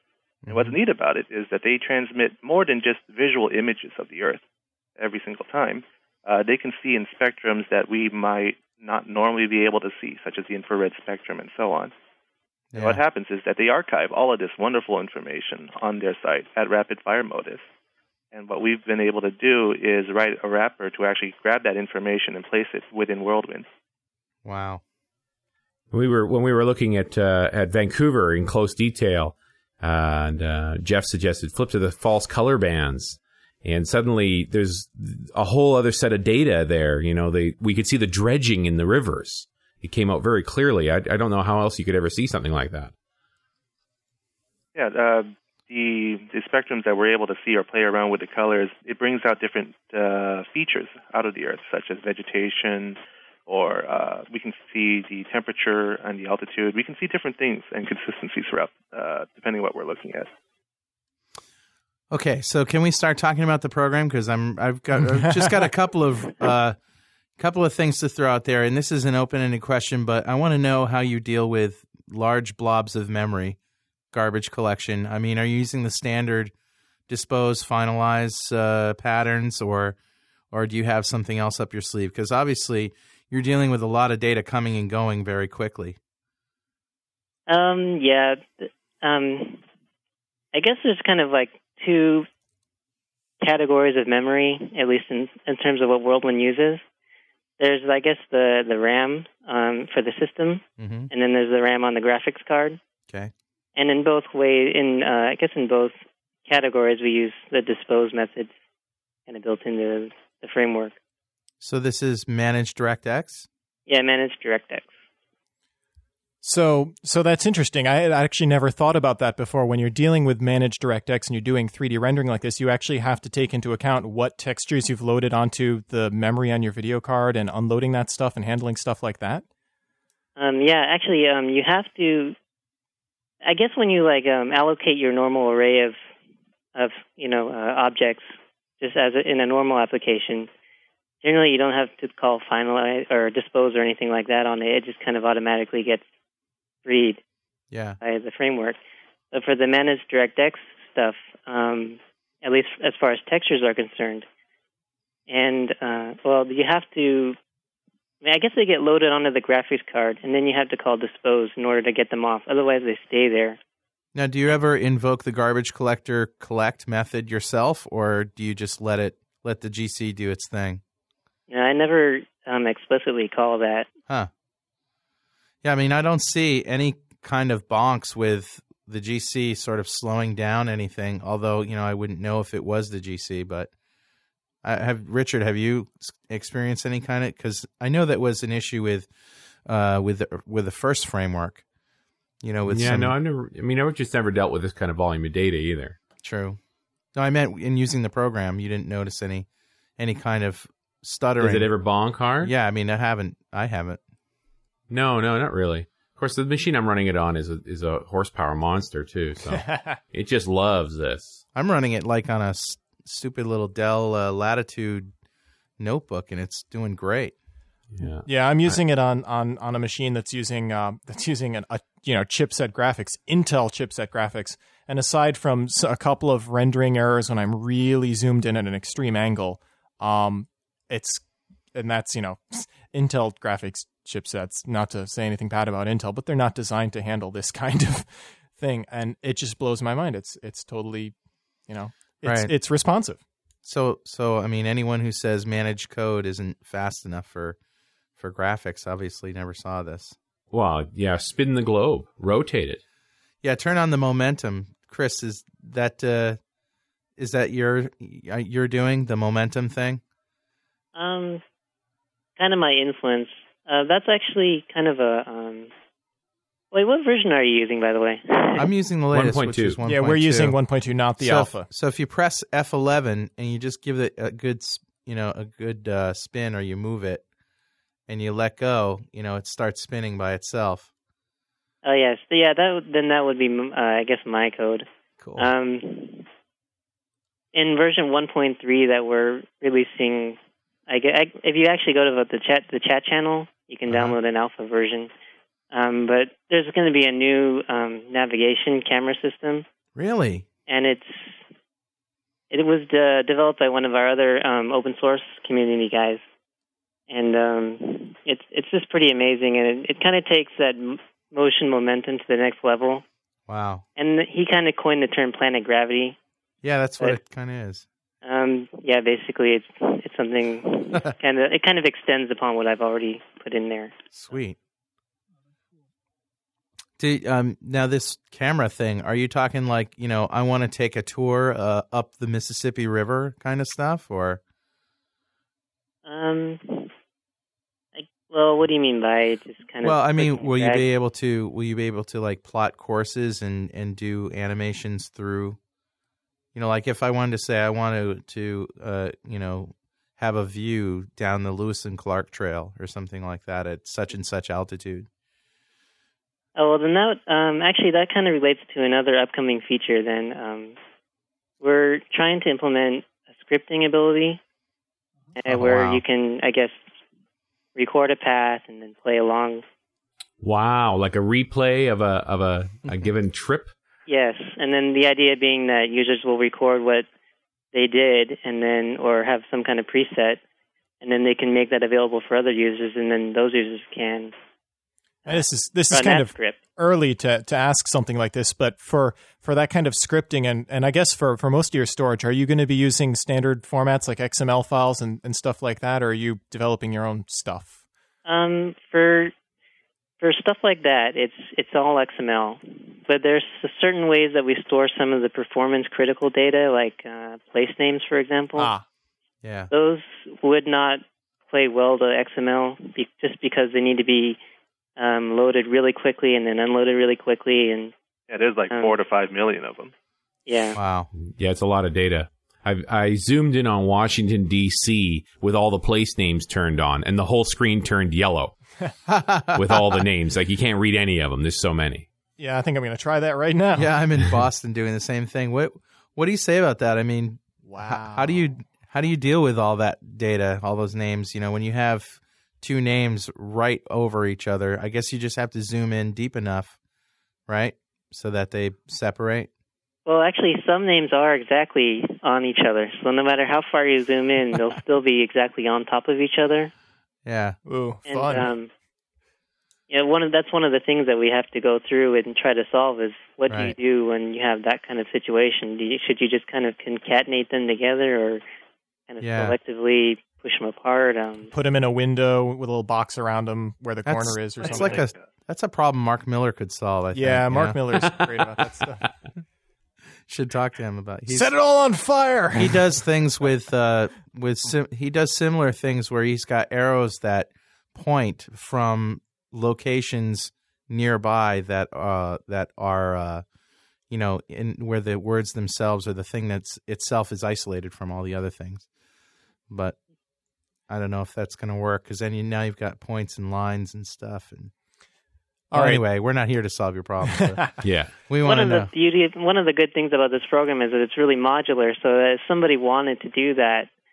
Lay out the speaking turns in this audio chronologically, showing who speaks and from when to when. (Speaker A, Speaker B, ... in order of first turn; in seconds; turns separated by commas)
Speaker A: 0.5-0.8, Speaker B: 0.5-4.4, Speaker B: 5.0-11.9, Speaker A: 12.7-13.0, Speaker B: 12.8-17.6, Speaker B: 18.3-23.7, Speaker A: 24.4-24.8, Speaker C: 25.9-42.9, Speaker B: 44.8-60.3, Speaker A: 62.1-66.8, Speaker A: 67.4-73.6, Speaker A: 74.1-76.5, Speaker A: 77.1-80.0, Speaker A: 80.5-86.0, Speaker D: 87.5-89.6, Speaker D: 90.5-92.3, Speaker D: 93.4-96.8, Speaker D: 97.6-102.8, Speaker A: 100.8-101.1, Speaker D: 103.8-108.5, Speaker D: 109.3-111.0, Speaker A: 111.6-113.5, Speaker D: 113.9-114.9, Speaker E: 116.4-129.4, Speaker D: 130.4-132.3, Speaker D: 133.4-136.0, Speaker D: 136.8-140.5, Speaker D: 141.2-146.0, Speaker D: 146.8-147.2, Speaker A: 147.7-148.0, Speaker D: 148.0-148.8, Speaker D: 149.3-154.3, Speaker D: 155.3-157.4, Speaker D: 158.2-163.6, Speaker A: 164.2-170.8, Speaker D: 171.5-173.9, Speaker A: 175.6-183.7, Speaker A: 184.6-189.1, Speaker A: 189.7-191.6, Speaker A: 192.4-193.2, Speaker C: 192.7-196.0, Speaker A: 196.2-196.6, Speaker A: 197.2-199.5, Speaker A: 200.0-201.7, Speaker C: 201.4-202.5, Speaker A: 202.4-204.0, Speaker C: 204.9-211.4, Speaker E: 209.5-210.0, Speaker A: 211.5-215.1, Speaker A: 215.8-217.3, Speaker C: 218.0-218.8, Speaker E: 218.2-241.2, Speaker E: 241.7-243.2, Speaker A: 242.2-242.5, Speaker A: 243.6-247.6, Speaker A: 248.2-250.2, Speaker C: 250.5-252.8, Speaker A: 253.4-256.4, Speaker A: 257.2-260.0, Speaker D: 260.9-261.4, Speaker D: 262.4-265.7, Speaker D: 266.7-268.7, Speaker A: 268.6-270.6, Speaker C: 269.1-269.8, Speaker E: 269.8-271.7, Speaker A: 271.2-277.2, Speaker A: 278.1-280.9, Speaker D: 281.8-286.3, Speaker A: 285.2-285.5, Speaker D: 287.5-295.1, Speaker A: 293.9-294.2, Speaker D: 295.7-299.7, Speaker A: 299.9-300.5, Speaker D: 300.7-301.4, Speaker D: 302.5-306.2, Speaker D: 307.1-313.0, Speaker A: 313.5-313.9, Speaker D: 314.0-316.2, Speaker A: 316.6-317.9, Speaker D: 318.2-323.9, Speaker A: 324.1-324.6, Speaker A: 327.0-334.4, Speaker D: 336.1-336.9, Speaker D: 337.9-340.9, Speaker A: 339.8-345.6, Speaker A: 346.6-355.1, Speaker D: 356.6-360.8, Speaker D: 361.6-364.4, Speaker D: 365.4-366.8, Speaker A: 365.5-366.0, Speaker D: 367.8-369.6, Speaker C: 370.4-373.7, Speaker D: 374.1-377.1, Speaker D: 377.7-380.4, Speaker D: 381.0-384.3, Speaker D: 385.2-386.6, Speaker E: 385.3-397.8, Speaker D: 398.2-399.3, Speaker D: 400.2-408.7, Speaker E: 408.6-408.9, Speaker A: 409.4-409.7, Speaker D: 409.7-414.4, Speaker D: 415.0-417.9, Speaker B: 418.3-419.9, Speaker D: 420.5-420.8, Speaker A: 420.8-421.1, Speaker C: 421.2-428.6, Speaker A: 429.1-430.0, Speaker C: 429.5-432.1, Speaker E: 432.4-433.9, Speaker A: 433.8-446.8, Speaker E: 437.7-438.4, Speaker A: 447.5-449.5, Speaker D: 450.1-456.7, Speaker A: 457.2-457.6, Speaker E: 457.7-458.5, Speaker D: 458.1-458.7, Speaker D: 459.9-468.4, Speaker A: 463.5-463.8, Speaker D: 469.1-471.5, Speaker A: 469.2-469.6, Speaker E: 471.5-475.0, Speaker A: 474.1-477.8, Speaker B: 474.9-475.2, Speaker E: 477.1-479.0, Speaker A: 480.3-481.5, Speaker E: 481.3-483.0, Speaker A: 482.5-493.4, Speaker A: 494.1-498.9, Speaker A: 499.7-500.0, Speaker A: 500.9-504.7, Speaker E: 505.7-506.0, Speaker A: 505.7-508.9, Speaker C: 507.8-508.1, Speaker D: 508.4-513.9